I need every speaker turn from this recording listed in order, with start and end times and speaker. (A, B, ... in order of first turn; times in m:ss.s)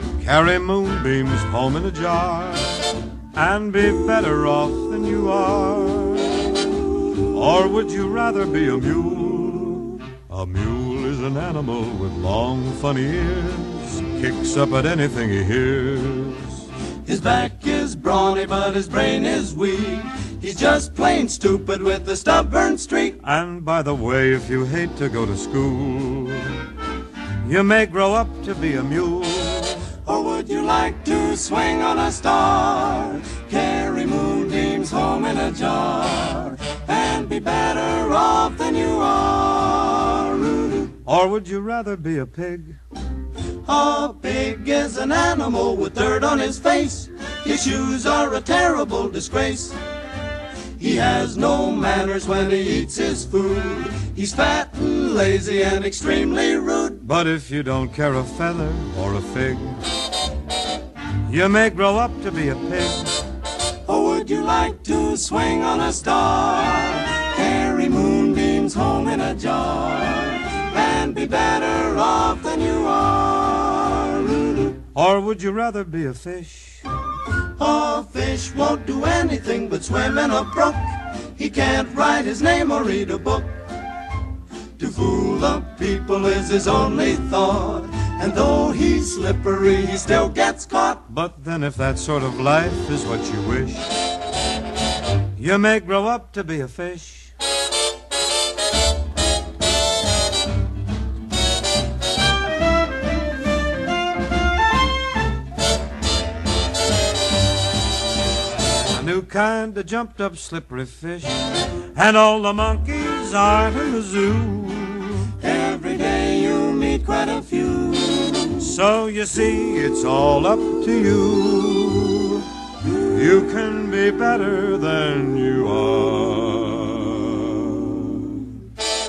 0:00.2-0:06.5 A
0:07.2-0:16.6 A
0:17.0-0:23.2 B
0:23.2-0:26.6 A
0:27.4-0:30.0 A
0:29.9-0:40.9 B
0:41.0-0:42.8 A
0:43.6-0:49.8 B
0:50.8-0:57.0 B
0:57.0-0:59.8 A
1:01.2-1:03.2 A
1:03.8-1:14.8 B
1:14.9-1:16.8 A
1:17.5-1:23.6 B
1:24.8-1:31.0 B
1:31.1-1:33.9 A
1:35.4-1:37.3 A
1:48.9-1:55.3 A
1:55.4-1:58.7 B
1:58.6-2:08.6 A